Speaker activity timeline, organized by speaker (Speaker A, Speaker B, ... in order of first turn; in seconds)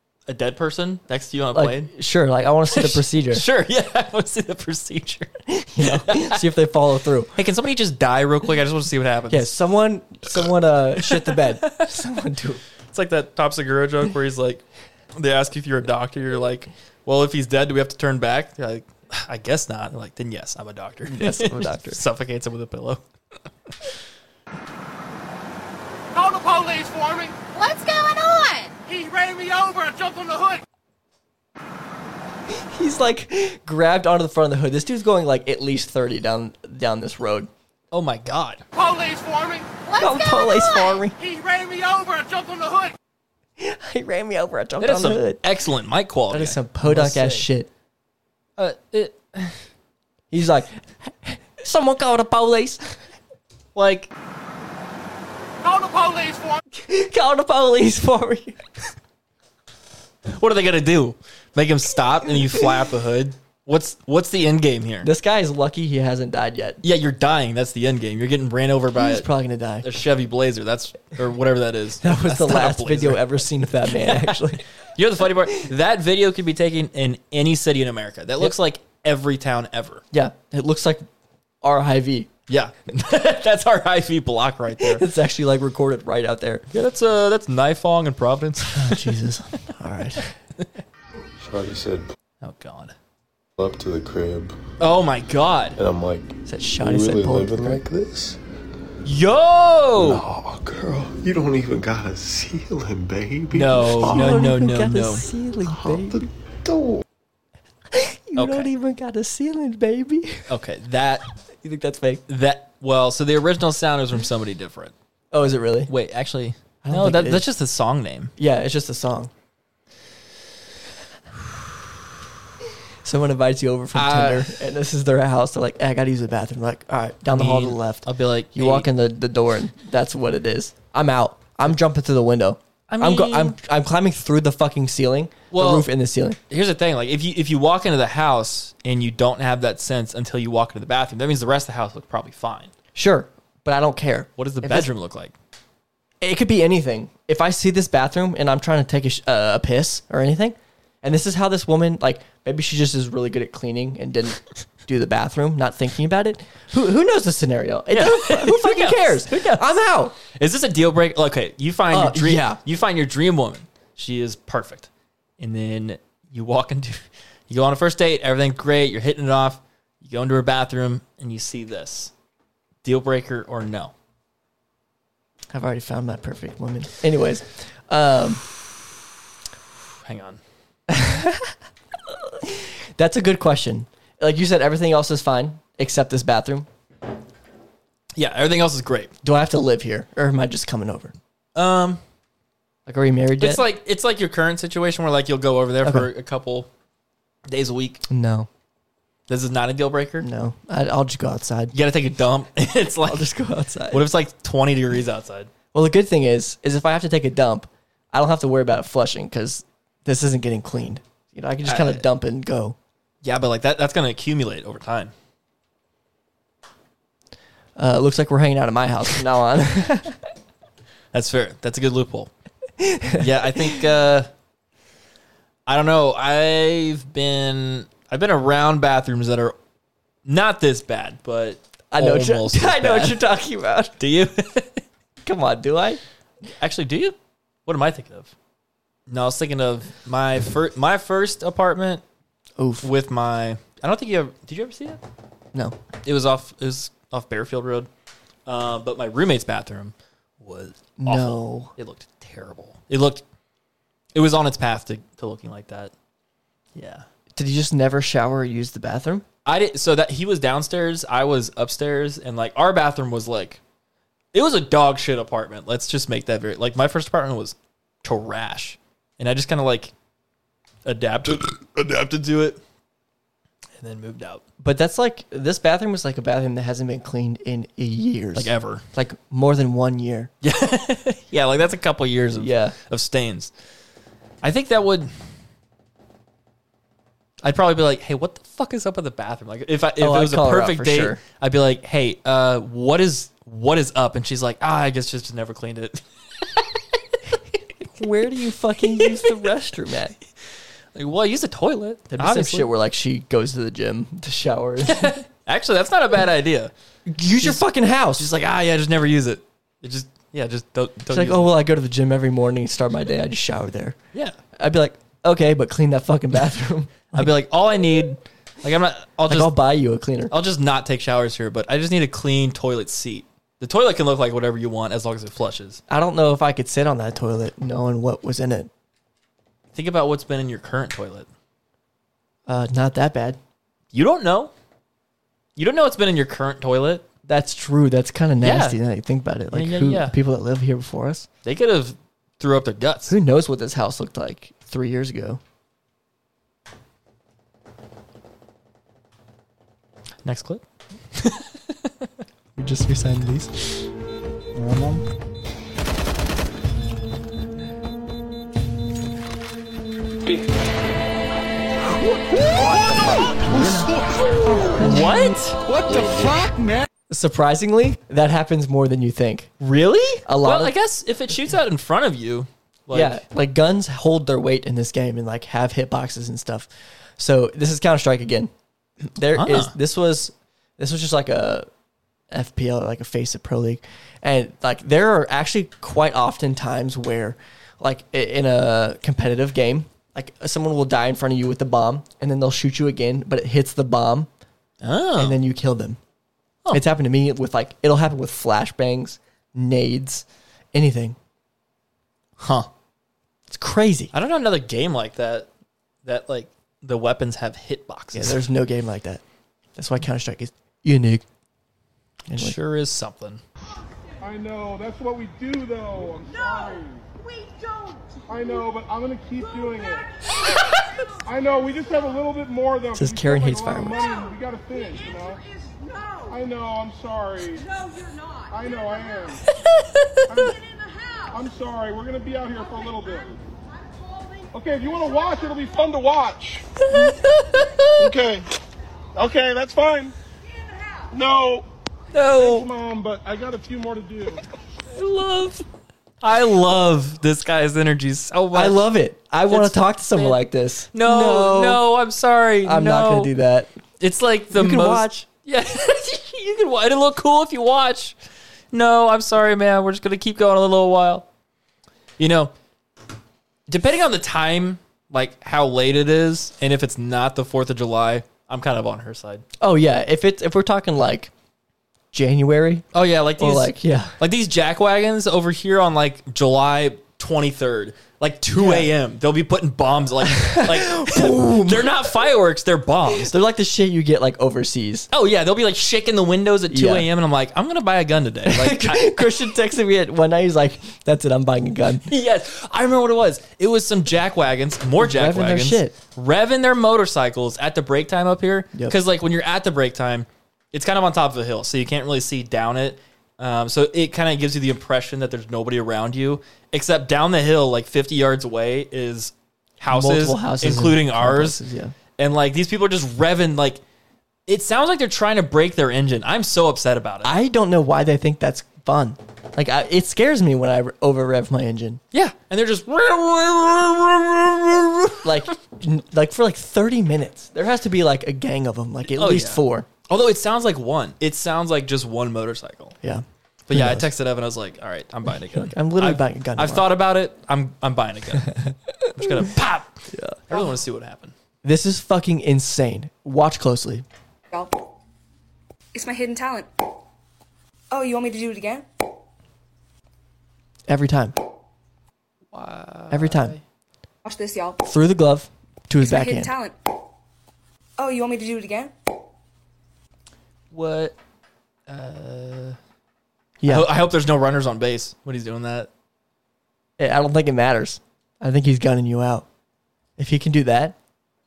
Speaker A: 0.3-1.9, 2.7-6.4, 7.3-9.5, 11.1-11.9, 12.9-14.6, 15.2-23.0, 37.9-38.6, 44.8-47.5, 48.6-49.6, 53.7-54.1, 60.3-65.1, 66.8-69.3, 69.8-73.4, 73.9-74.4, 74.9-80.0, 82.5-85.0, 86.7-89.1, 92.4-92.9, 94.8-95.8, 99.0-100.2, 103.5-105.2, 108.4-108.7, 110.5-111.2, 112.3-114.9, 115.9-118.3, 123.9-124.5, 127.3-128.9, 132.9-133.6, 135.5-135.9, 136.5-142.7, 144.4-145.3, 157.9-159.6, 160.2-172.1, 172.8-173.9, 180.1-180.4, 188.1-189.1, 191.5-192.0, 193.4-196.7, 197.5-198.0, 199.3-200.3, 201.7-203.3, 203.9-205.5, 211.6-212.0, 213.2-215.1, 221.1-222.3, 223.2-224.3, 225.7-229.5, 230.2-233.2, 234.0-234.8, 236.6-238.3, 239.1-242.0, 242.8-245.0, 246.0-247.9, 248.4-253.2, 254.1-255.9, 256.7-257.0, 259.4-263.6, 264.3-269.9, 270.8-272.6, 273.8-274.4, 278.3-278.8, 280.4-283.5, 284.4-285.1, 287.4-296.0, 300.9-302.7, 304.9-306.7, 307.4-307.6, 308.1-311.5, 317.1-319.5, 320.3-325.8, 329.7-331.3, 333.9-334.5, 335.6-337.1, 338.4-338.8, 339.5-340.1, 341.4-343.1, 350.2-350.6, 351.1-351.6, 364.8-365.6, 369.6-373.2, 379.4-379.7, 394.8-395.4, 402.4-402.7, 404.1-405.5, 406.0-408.4, 412.3-413.4, 437.3-437.8, 442.1-442.7, 444.9-445.6, 446.2-448.8, 449.5-450.4, 450.9-453.3, 454.0-458.1, 458.7-461.2, 462.2-462.5, 463.7-469.4, 472.9-483.3, 485.1-489.3, 492.1-511.6, 512.2-513.8, 514.5-517.3, 522.1-525.2, 529.1-533.0, 533.7-538.5, 539.1-541.3, 552.5-553.6, 560.7-561.1, 561.9-562.8, 563.7-565.9
Speaker B: 1.5-3.4, 5.5-7.3, 9.3-12.6, 21.1-22.0, 32.5-37.5, 40.0-41.1, 43.6-45.4, 46.3-47.7, 50.3-52.8, 56.7-58.6, 65.0-66.8, 68.9-69.8, 72.0-74.6, 80.1-81.0, 81.6-82.3, 84.8-86.6, 88.7-90.3, 96.5-97.8, 104.0-106.2, 107.9-110.5, 111.6-112.2, 115.3-115.9, 116.8-117.5, 118.4-119.3, 123.0-136.4, 142.9-144.9, 146.2-160.1, 161.9-162.6, 175.5-178.4, 180.9-181.5, 182.1-186.7, 189.2-191.1, 192.8-193.6, 195.8-196.1, 198.1-198.5, 200.2-201.7, 203.0-204.1, 205.7-212.8, 217.8-220.2, 222.8-223.8, 231.9-233.9, 235.2-236.0, 242.6-242.9, 251.0-251.7, 257.3-259.2, 274.6-280.3, 282.4-282.8, 290.0-291.2, 297.8-300.1, 302.1-305.1, 307.1-308.3, 311.1-314.0, 314.6-317.3, 319.3-320.3, 325.9-328.7, 332.4-333.4, 337.2-341.3, 343.1-345.4, 352.6-353.8, 367.1-369.5, 370.2-370.7, 372.9-378.5, 379.0-381.7, 382.3-394.3, 395.2-396.0, 396.7-401.2, 403.5-404.1, 408.1-409.2, 409.8-411.2, 412.3-412.6, 422.9-424.0, 448.5-451.8, 452.6-453.7, 454.5-455.2, 469.6-471.3, 472.1-472.8, 473.4-474.1, 478.5-478.9, 480.2-482.0, 483.1-485.1, 486.7-487.1, 488.4-492.1, 495.0-496.0, 509.9-511.9, 517.2-522.0, 525.2-529.9, 533.0-534.1, 535.5-536.9, 540.1-540.4, 541.6-544.0, 550.9-551.4, 553.1-553.5, 554.8-556.5, 563.6-563.9, 567.0-569.5, 570.2-571.0
Speaker C: 26.1-27.6, 28.9-30.6, 38.7-40.0, 41.1-42.9, 55.6-56.6
Speaker D: 91.4-92.0, 93.6-94.5, 95.8-98.4, 100.0-104.5, 105.6-107.0
Speaker E: 414.2-417.0, 418.3-420.1, 421.2-425.4, 426.3-427.7, 428.5-429.4, 430.3-430.6, 431.3-433.4, 434.5-437.1, 438.0-438.4, 439.1-440.1, 441.1-441.6, 442.3-444.4
Speaker F: 544.5-544.8, 545.9-546.7, 547.9-548.8, 554.2-554.8, 556.0-556.7, 558.0-558.9